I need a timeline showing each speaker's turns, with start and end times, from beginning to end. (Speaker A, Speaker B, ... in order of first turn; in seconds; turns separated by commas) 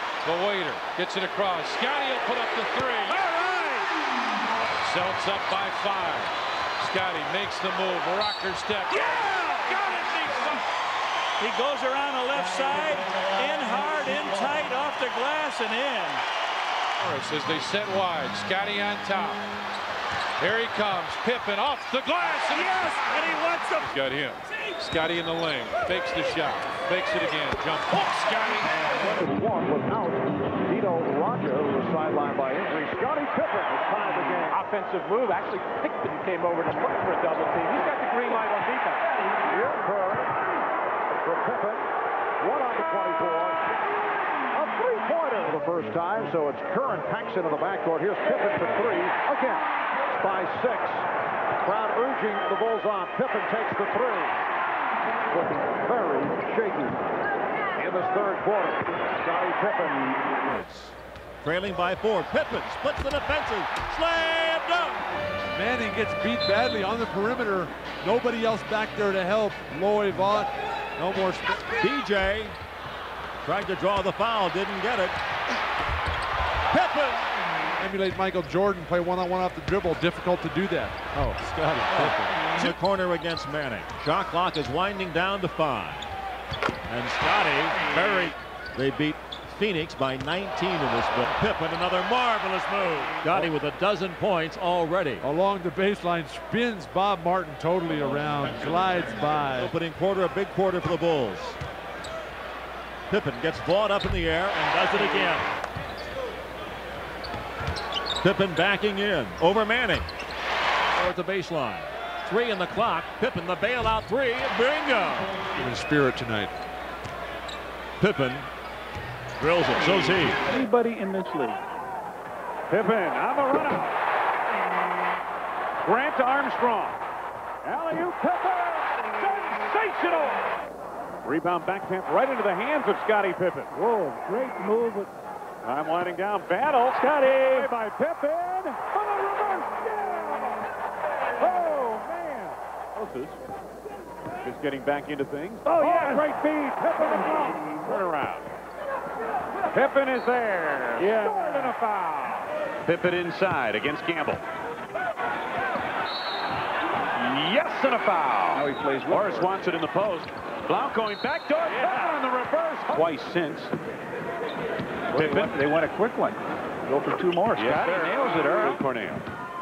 Speaker A: 0.2-3.2, Speaker B: 3.1-3.9, Speaker A: 4.8-10.6, Speaker B: 8.9-10.0, Speaker B: 11.4-16.2, Speaker A: 17.0-19.4, Speaker A: 20.4-23.2, Speaker B: 22.5-23.9, Speaker A: 23.8-28.7, Speaker C: 28.8-34.5, Speaker D: 34.5-39.1, Speaker C: 39.5-40.3, Speaker C: 41.1-43.6, Speaker C: 44.5-51.1, Speaker C: 51.6-54.4, Speaker C: 55.3-57.0, Speaker C: 57.8-60.4, Speaker E: 61.4-65.1, Speaker F: 65.5-71.7, Speaker E: 71.6-72.6, Speaker E: 73.4-75.2, Speaker E: 76.7-77.3, Speaker F: 77.8-82.8, Speaker E: 81.1-86.1, Speaker E: 86.9-95.2, Speaker F: 95.2-99.7, Speaker E: 99.3-101.6, Speaker E: 103.1-105.5, Speaker E: 108.2-110.1, Speaker E: 111.0-115.5, Speaker F: 115.5-116.5, Speaker E: 118.0-118.5, Speaker E: 119.4-120.4, Speaker B: 120.5-121.6, Speaker G: 122.7-123.9, Speaker G: 125.8-127.0, Speaker G: 127.6-130.4, Speaker G: 131.2-133.7, Speaker B: 133.8-135.1, Speaker G: 135.6-140.6, Speaker B: 137.0-137.7, Speaker G: 141.4-143.4, Speaker G: 144.4-148.5, Speaker B: 145.6-146.3, Speaker G: 149.7-154.4, Speaker B: 151.0-151.7, Speaker G: 157.2-163.7, Speaker B: 161.7-162.2, Speaker G: 165.1-165.6, Speaker B: 165.1-168.7, Speaker G: 167.6-169.2